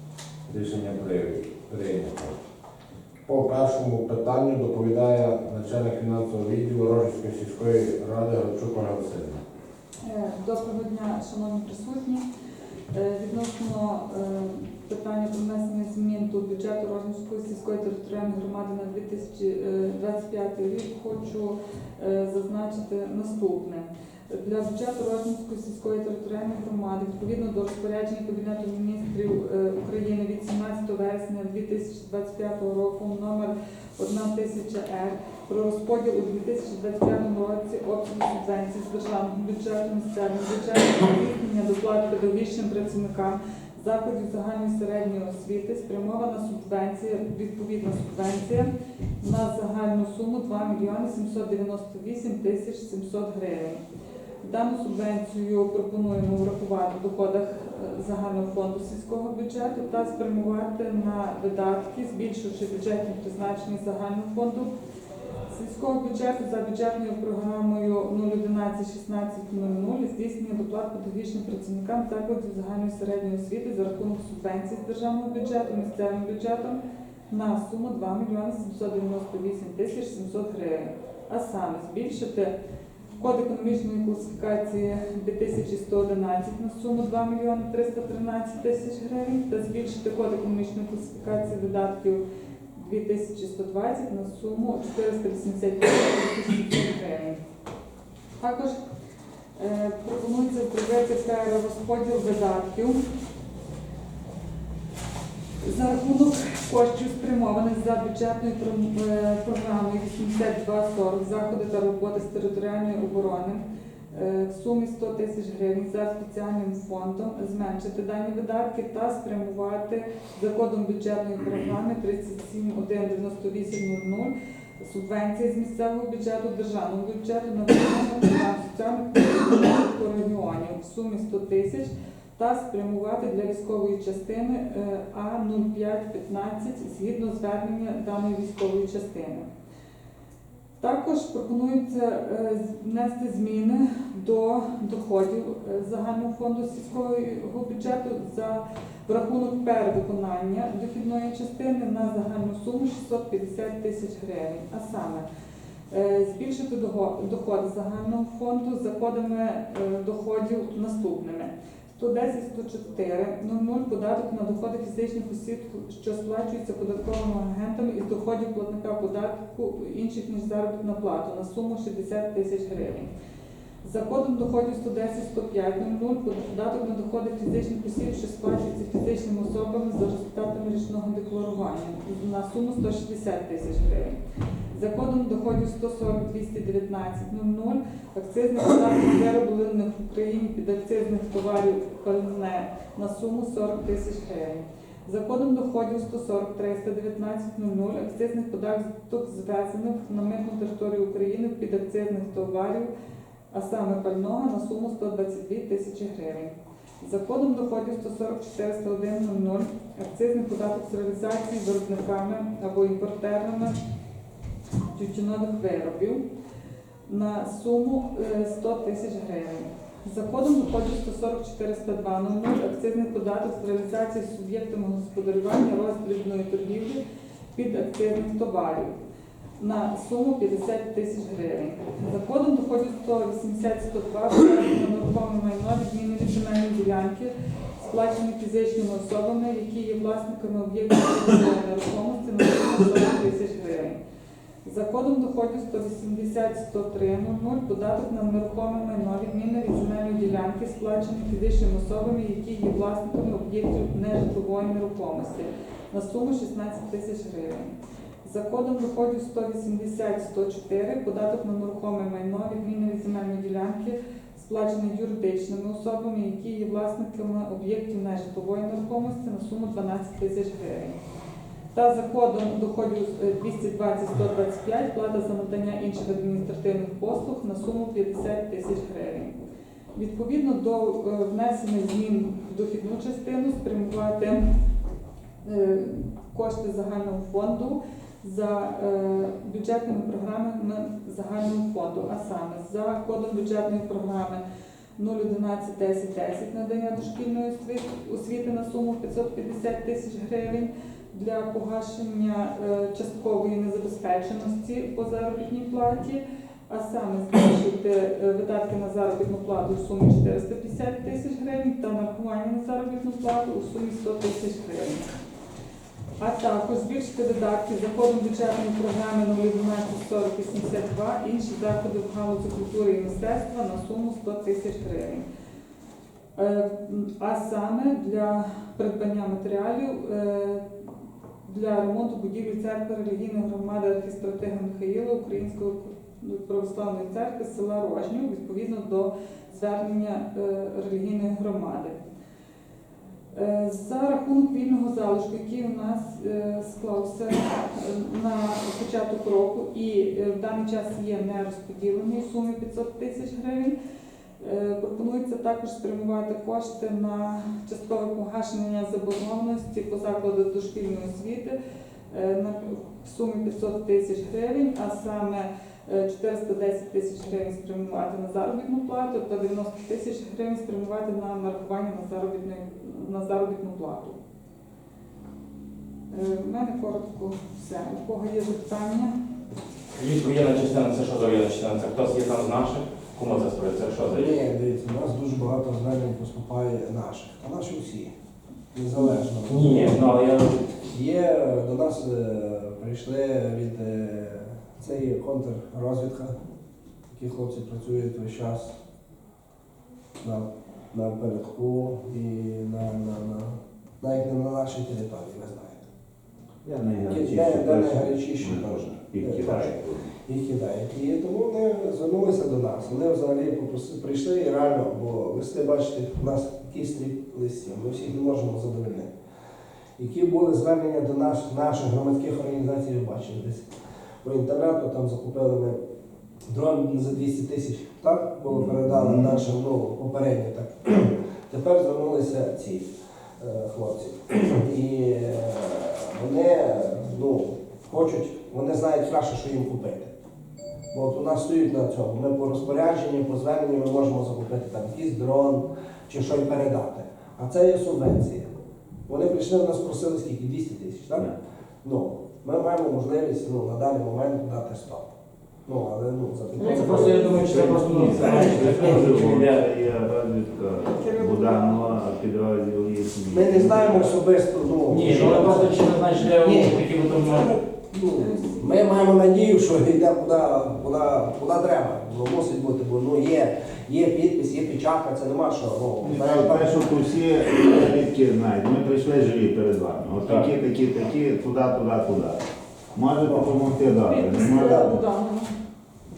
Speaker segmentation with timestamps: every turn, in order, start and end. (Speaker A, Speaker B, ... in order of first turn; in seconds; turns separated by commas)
Speaker A: 0.5-2.4, Speaker A: 3.3-9.4, Speaker B: 10.0-12.3, Speaker B: 12.9-53.8, Speaker B: 54.4-64.7, Speaker B: 65.5-82.5, Speaker B: 83.2-92.2, Speaker B: 92.7-97.4, Speaker B: 98.4-98.8, Speaker B: 99.6-103.0, Speaker B: 105.6-139.5, Speaker B: 140.8-155.3, Speaker B: 155.9-173.1, Speaker B: 173.8-184.2, Speaker B: 184.7-202.9, Speaker B: 203.5-213.8, Speaker B: 214.9-216.2, Speaker B: 217.1-227.0, Speaker B: 227.6-229.0, Speaker B: 229.6-244.0, Speaker B: 244.6-271.0, Speaker B: 271.7-279.4, Speaker B: 279.9-284.4, Speaker B: 285.4-294.4, Speaker B: 295.0-315.1, Speaker B: 316.2-325.2, Speaker B: 326.4-330.6, Speaker B: 331.4-342.0, Speaker B: 343.3-353.8, Speaker B: 354.4-361.6, Speaker B: 362.1-374.2, Speaker B: 376.1-379.1, Speaker C: 380.0-384.4, Speaker D: 384.1-388.1, Speaker D: 388.7-390.1, Speaker C: 389.4-390.6, Speaker D: 390.9-396.4, Speaker D: 397.1-398.8, Speaker D: 400.2-405.9, Speaker E: 406.6-410.1, Speaker D: 407.0-419.1, Speaker D: 420.0-423.7, Speaker D: 424.2-425.8, Speaker D: 426.5-440.1, Speaker E: 428.5-429.4, Speaker D: 440.9-448.5, Speaker D: 449.1-451.3, Speaker D: 451.8-455.1, Speaker D: 455.7-458.7, Speaker C: 456.6-459.7, Speaker B: 456.6-457.4, Speaker E: 457.5-464.2, Speaker B: 460.9-462.0, Speaker D: 463.3-476.9, Speaker C: 464.9-467.5, Speaker B: 468.2-468.8, Speaker E: 476.0-482.4, Speaker C: 480.2-480.5, Speaker E: 483.0-485.0, Speaker D: 483.2-483.6, Speaker B: 484.0-485.6, Speaker D: 484.5-484.9